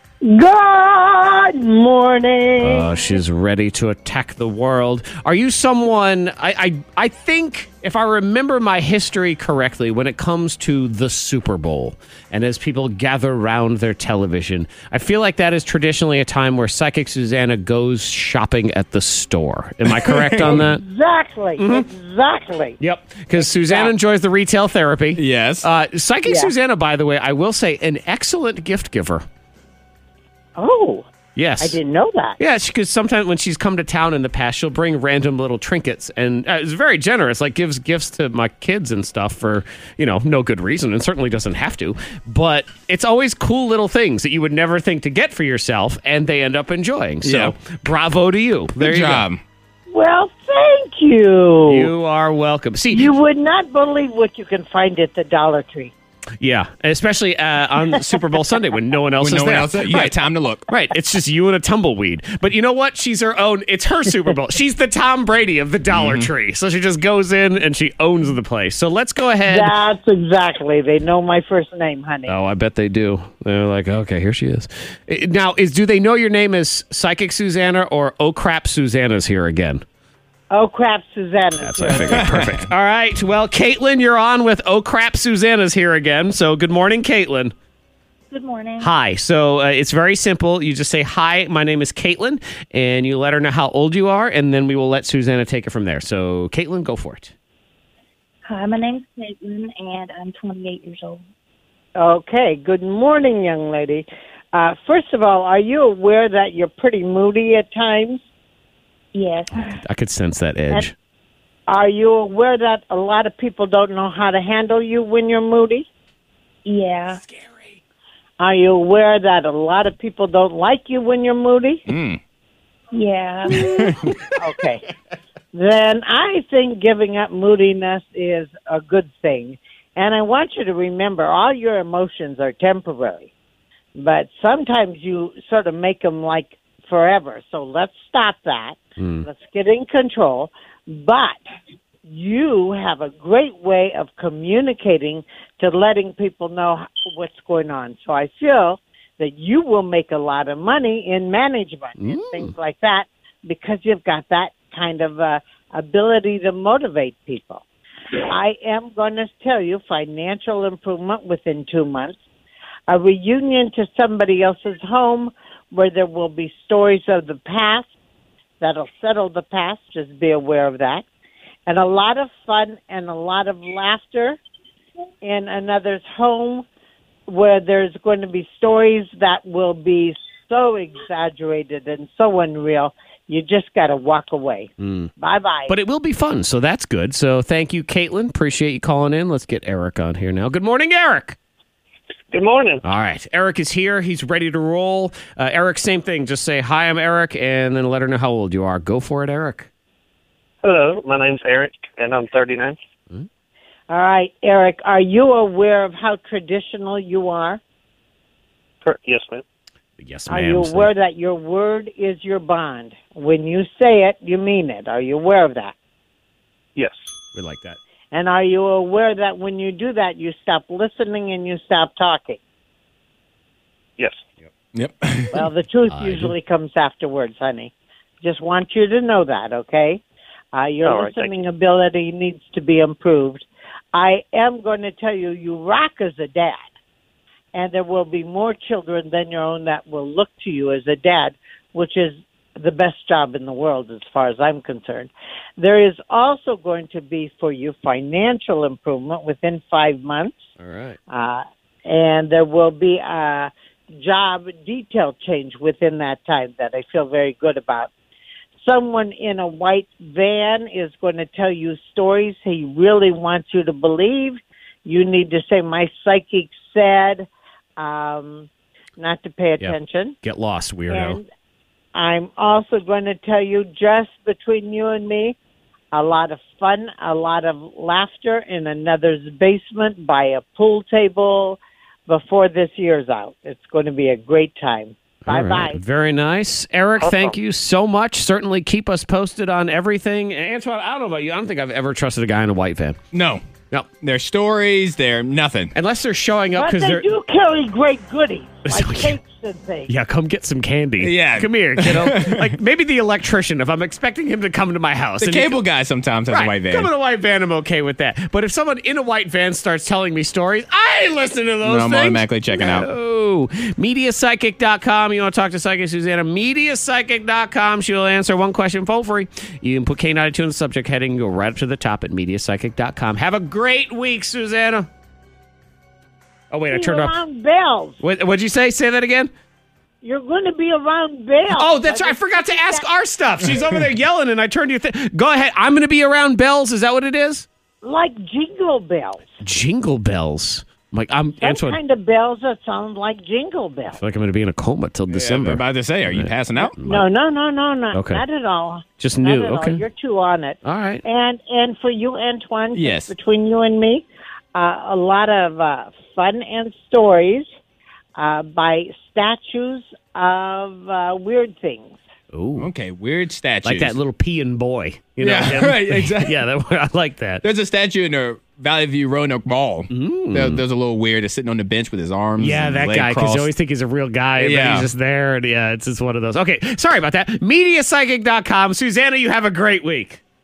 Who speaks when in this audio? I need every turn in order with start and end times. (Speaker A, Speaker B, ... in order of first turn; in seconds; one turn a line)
Speaker A: 0.2-3.0
Speaker B: 2.6-20.8
Speaker C: 19.9-20.6
Speaker A: 20.4-22.8
Speaker B: 21.6-21.9
Speaker B: 22.8-29.2
Speaker A: 23.4-23.9
Speaker C: 25.2-25.7
Speaker A: 26.2-26.5
Speaker A: 30.6-31.1
Speaker B: 31.4-31.8
Speaker A: 31.6-32.4
Speaker B: 32.4-49.3
Speaker C: 47.2-47.5
Speaker C: 48.8-49.4
Speaker A: 49.9-51.9
Speaker B: 51.7-53.1
Speaker A: 52.9-55.9
Speaker B: 56.4-60.1
Speaker C: 59.2-60.7
Speaker B: 60.7-69.7
Speaker C: 65.9-66.3
Speaker A: 69.5-72.4
Speaker B: 72.3-79.8
Speaker A: 80.5-82.3
Speaker B: 81.6-87.5
Speaker C: 82.1-82.7
Speaker D: 88.3-88.9
Speaker B: 88.8-97.3
Speaker D: 98.5-101.2
Speaker A: 102.0-108.2
Speaker D: 109.1-109.8
Speaker B: 109.6-110.9
Speaker A: 111.7-115.9
Speaker D: 116.7-117.2
Speaker A: 118.4-121.8
Speaker C: 121.9-122.2
Speaker D: 122.9-123.6
Speaker C: 123.5-124.1
Speaker A: 124.4-124.8
Speaker A: 125.5-133.3
Speaker A: 134.0-141.4
Speaker B: 139.0-139.2
Speaker A: 142.1-157.7
Speaker B: 152.0-152.5
Speaker A: 158.3-162.2
Speaker A: 162.9-167.9
Speaker A: 168.6-171.1
Speaker A: 171.7-174.4
Speaker A: 175.2-176.7
Speaker A: 177.3-185.7
Speaker B: 184.8-185.1
Speaker B: 185.7-191.4
Speaker E: 192.3-192.8
Speaker B: 192.8-199.7
Speaker E: 200.6-202.8
Speaker A: 203.9-207.6
Speaker E: 208.8-209.4
Speaker B: 210.0-210.9
Speaker A: 210.3-215.7
Speaker B: 217.3-217.8
Speaker A: 218.1-222.4
Speaker C: 224.7-225.5
Speaker A: 225.3-230.0
Speaker B: 225.9-226.3
Speaker A: 230.5-236.6
Speaker E: 230.8-231.3
Speaker A: 237.5-250.4
Speaker B: 250.6-251.0
Speaker A: 251.1-257.9
Speaker A: 258.6-270.2
Speaker B: 269.6-271.2
Speaker A: 270.9-271.3
Speaker A: 271.9-275.4
Speaker A: 275.9-285.8
Speaker B: 285.3-293.0
Speaker E: 287.0-287.4
Speaker C: 293.1-293.4
Speaker C: 294.0-295.7
Speaker B: 295.7-297.1
Speaker A: 296.6-299.9
Speaker B: 298.7-299.2
Speaker B: 299.9-305.6
Speaker C: 301.0-302.6
Speaker C: 305.2-306.9
Speaker B: 306.3-324.9
Speaker C: 311.6-312.9
Speaker B: 326.5-327.1
Speaker A: 326.7-328.0
Speaker B: 328.0-329.3
Speaker A: 330.0-332.9
Speaker B: 331.5-337.5
Speaker A: 337.8-339.2
Speaker B: 339.4-341.8
Speaker A: 341.4-344.0
Speaker B: 343.9-347.1
Speaker C: 345.1-346.8
Speaker A: 346.8-357.5
Speaker B: 347.9-348.2
Speaker B: 349.0-349.8
Speaker B: 350.6-351.0
Speaker C: 352.8-353.1
Speaker A: 358.2-362.0
Speaker B: 362.3-362.7
Speaker C: 362.6-364.0
Speaker B: 363.6-367.4
Speaker C: 365.2-366.4
Speaker C: 367.4-373.5
Speaker B: 369.9-370.6
Speaker B: 372.4-380.2
Speaker C: 374.4-374.9